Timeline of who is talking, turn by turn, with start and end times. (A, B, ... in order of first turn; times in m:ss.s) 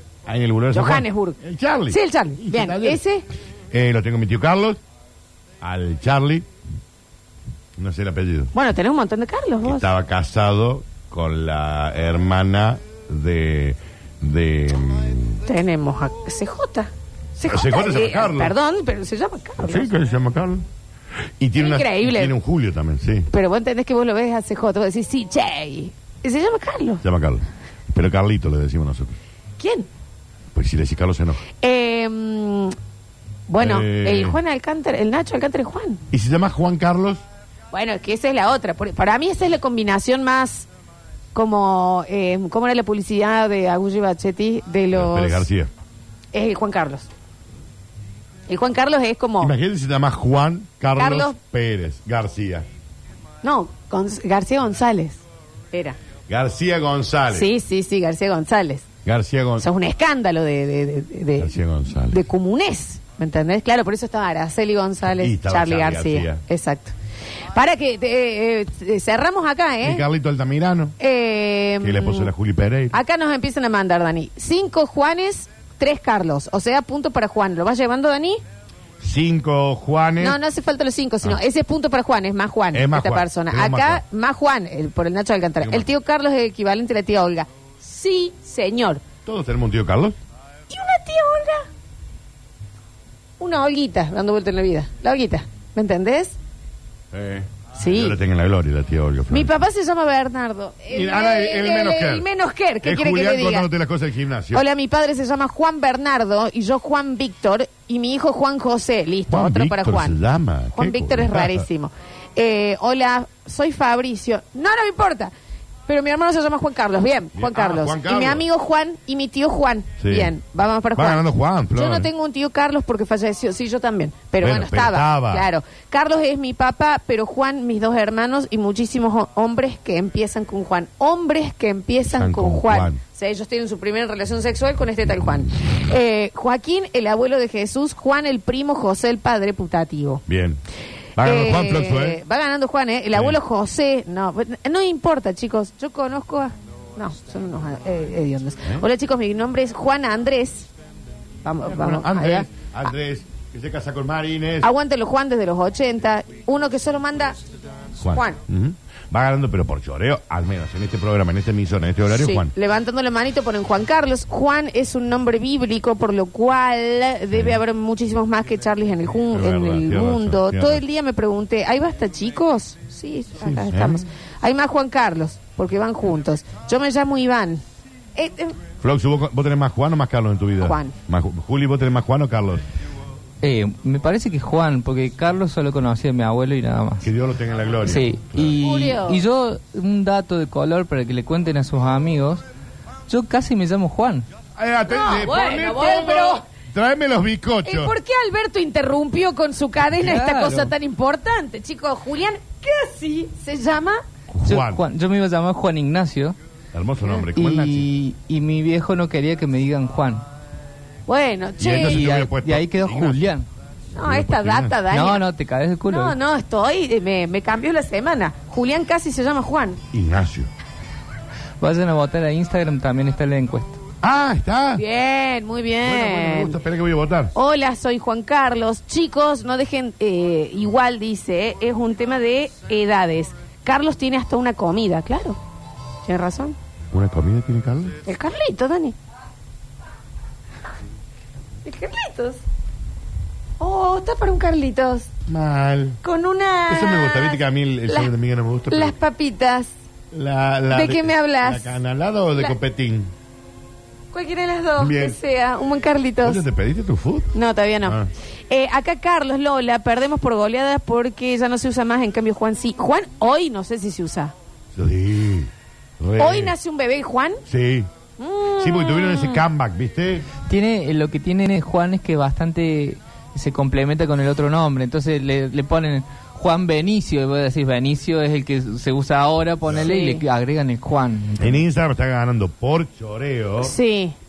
0:00.3-0:03.0 A
0:00.7-0:01.4 B
0:01.9-0:03.3 B
0:03.7-0:04.8 A
0:05.6-0:06.5 A
0:07.8-0:08.5 A
0:08.5-0:09.9 B
0:09.6-0:15.4 A
0:15.5-0:20.0 B
0:17.4-0:18.6 A
0:19.6-0:20.6 A
0:21.4-0:23.3 A
0:21.6-0:22.4 B
0:23.3-0:27.0 B
0:27.0-0:29.2 A
0:29.6-0:29.9 B
0:30.5-0:31.4 A
0:31.6-0:32.8 B
0:33.5-0:36.0 B
0:33.6-0:34.4 A
0:36.1-0:37.2 A
0:37.7-0:40.7 B
0:41.3-0:45.5 B
0:44.9-0:45.7 A
0:46.3-0:47.1 B
0:48.5-0:49.5 B
0:49.4-0:52.7 A
0:51.0-0:51.4 B
0:53.4-0:55.2 B
0:56.3-0:57.5 A
0:57.3-0:58.8 B
0:59.0-0:59.6 A
0:59.6-1:06.9 B
1:01.4-1:02.2 A
1:05.0-1:06.4 A
1:07.5-1:10.0 B
1:09.8-1:11.0 A
1:11.0-1:12.3 B
1:11.8-1:13.0 A
1:12.9-1:18.4 B
1:19.0-1:20.4 A
1:20.2-1:29.0 B
1:22.7-1:24.0 A
1:25.6-1:25.9 A
1:29.2-1:30.2 A
1:30.7-1:31.7 B
1:33.4-1:36.4 B
1:37.1-1:39.6 A
1:37.8-1:38.2 B
1:39.3-1:43.7 B
1:40.9-1:42.3 A
1:42.8-1:44.6 A
1:44.5-1:50.2 B
1:49.3-1:51.7 A
1:50.7-1:55.3 B
1:55.9-2:20.2 B
1:57.4-1:58.5 A
2:00.0-2:00.3 A
2:01.0-2:02.1 A
2:04.4-2:05.5 A
2:12.1-2:13.0 A
2:20.3-2:20.6 A
2:21.2-2:22.2 A
2:21.2-2:30.7 B
2:23.1-2:23.4 A
2:31.4-2:32.5 B
2:31.6-2:34.7 A
2:34.6-2:37.4 B
2:38.0-2:42.5 A
2:38.0-2:38.4 B
2:42.1-2:57.6 B
2:47.3-2:47.6 A
2:49.3-2:50.8 A
2:53.4-2:54.1 A
2:58.2-2:58.6 B
2:58.8-3:02.6 A
3:00.6-3:01.0 B
3:03.4-3:07.1 C
3:07.0-3:08.6 A
3:07.8-3:12.4 C
3:08.6-3:09.2 B
3:13.1-3:14.3 C
3:14.6-3:18.0 A
3:14.9-3:16.4 B
3:17.6-3:24.0 B
3:20.0-3:20.7 C
3:24.3-3:24.8 A
3:24.4-3:26.4 C
3:26.7-3:27.9 A
3:27.2-3:30.2 C
3:31.1-3:32.0 B
3:31.6-3:33.3 A
3:31.7-3:33.5 C
3:34.0-3:34.8 A
3:34.0-3:35.2 B
3:34.9-3:36.2 C
3:35.8-3:39.8 B
3:39.9-3:40.5 A
3:41.6-3:43.8 C
3:44.0-3:44.8 A
3:44.8-3:46.6 B
3:45.8-3:47.3 A
3:47.3-3:55.4 B
3:56.0-3:56.6 B
3:56.9-3:58.0 A
3:58.1-3:59.0 B
4:01.6-4:02.4 B
4:03.6-4:05.1 B
4:05.3-4:06.0 A
4:06.0-4:08.1 B
4:06.7-4:08.9 A
4:08.7-4:09.7 B
4:10.1-4:13.1 A
4:10.7-4:11.8 B
4:14.1-4:16.4 B
4:14.8-4:15.2 A
4:16.2-4:17.3 A
4:17.3-4:18.0 B
4:17.8-4:18.1 A
4:18.5-4:24.3 B
4:24.7-4:26.5 A
4:26.2-4:27.4 B
4:27.5-4:27.9 A
4:28.2-4:29.4 B
4:28.6-4:30.3 A
4:30.5-4:41.6 C
4:39.8-4:40.2 B
4:41.4-4:43.8 A
4:43.6-4:44.2 B